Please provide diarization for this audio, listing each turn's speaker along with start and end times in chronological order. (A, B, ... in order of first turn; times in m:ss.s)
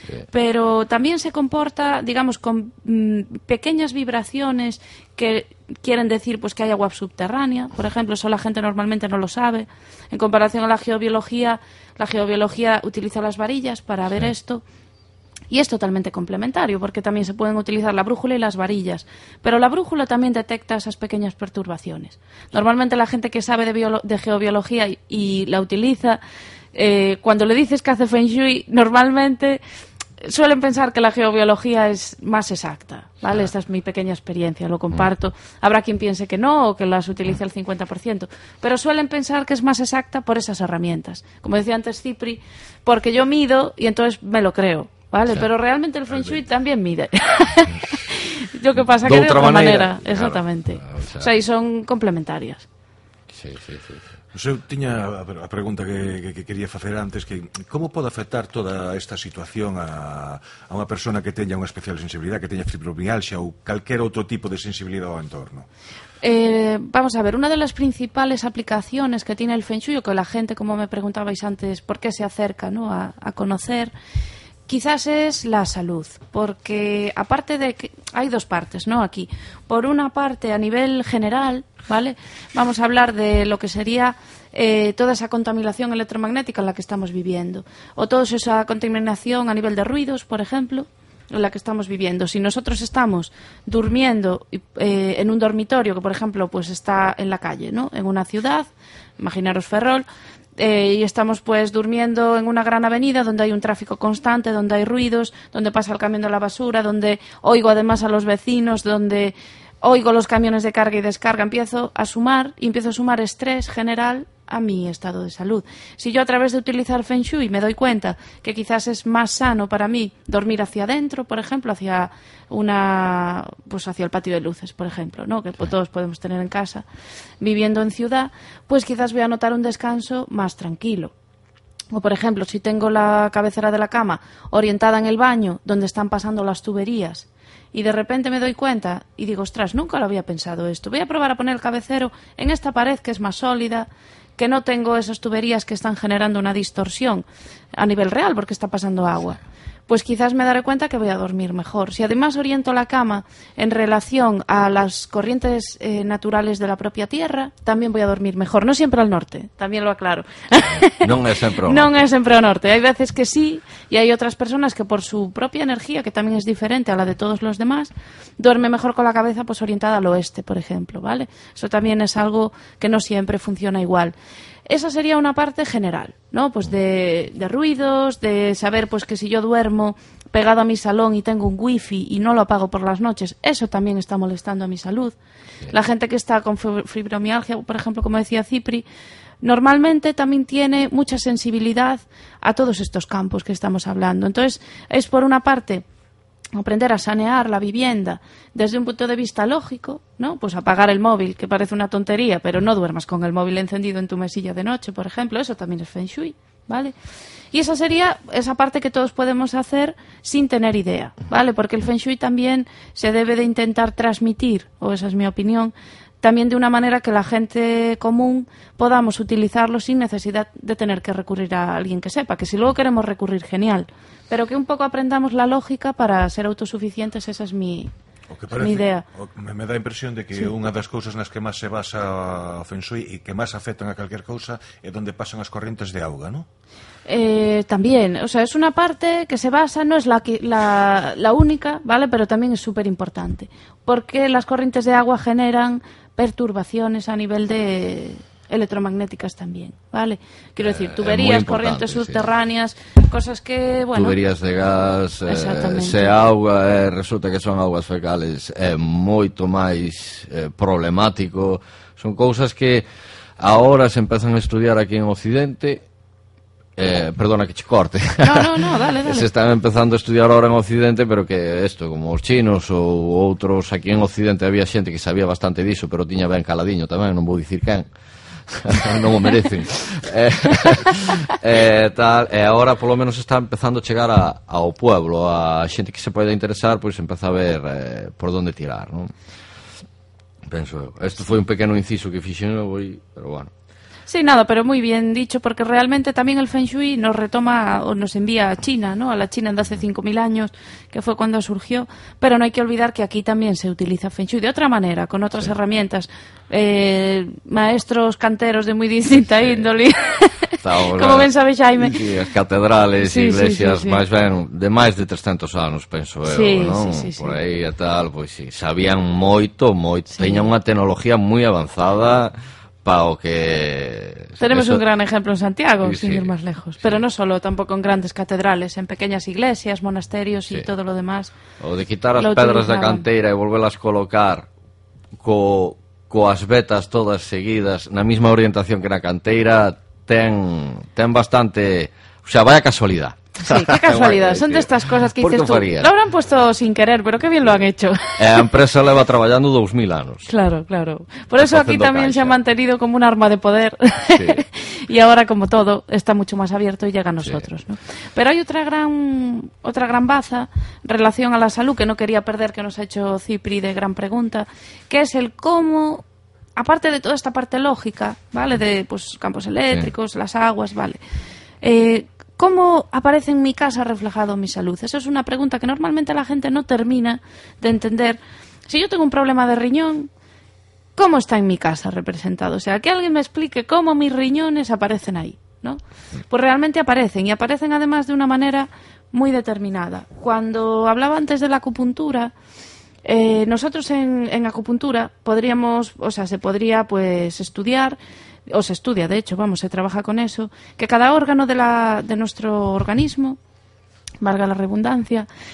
0:00.3-0:14.6 A
0:15.5-0:26.2 A
0:26.8-0:29.6 A
0:30.2-0:52.7 A
0:49.0-0:51.3 B
0:53.3-0:54.0 B
0:54.3-1:05.7 C
1:06.2-1:13.9 A
1:14.7-1:40.1 A
1:40.6-2:06.8 A
2:07.4-2:11.1 A
2:11.9-2:54.1 A
2:40.6-2:42.0 B
2:54.7-3:05.2 A
3:05.7-3:08.8 A
3:09.4-3:15.8 A
3:16.6-3:26.9 A
3:27.5-3:47.9 A
3:48.3-3:56.5 C
3:48.5-3:49.0 A
3:57.1-4:14.2 A
4:10.6-4:12.2 B
4:13.9-4:22.9 B
4:15.3-4:16.2 A
4:23.4-4:25.8 B
4:26.8-4:37.9 B
4:28.2-4:29.3 A
4:38.5-4:49.1 B
4:50.5-4:53.5 B
4:54.1-5:12.1 A
5:10.6-5:24.8 B
5:13.0-5:14.0 A
5:16.3-5:17.4 A
5:20.1-5:20.5 A
5:24.4-5:31.3 A
5:25.8-5:27.0 B
5:31.6-5:34.5 B
5:32.2-5:33.1 A
5:35.2-5:45.9 B
5:43.4-5:48.5 A
5:48.2-5:50.3 B
5:50.3-6:06.0 A
5:51.4-5:52.4 B
5:54.1-5:54.4 B
6:06.6-6:11.0 A
6:11.6-6:18.2 A
6:18.7-6:20.1 A
6:21.0-6:32.3 A
6:33.0-6:38.0 A
6:38.5-6:43.4 A
6:44.2-6:45.3 A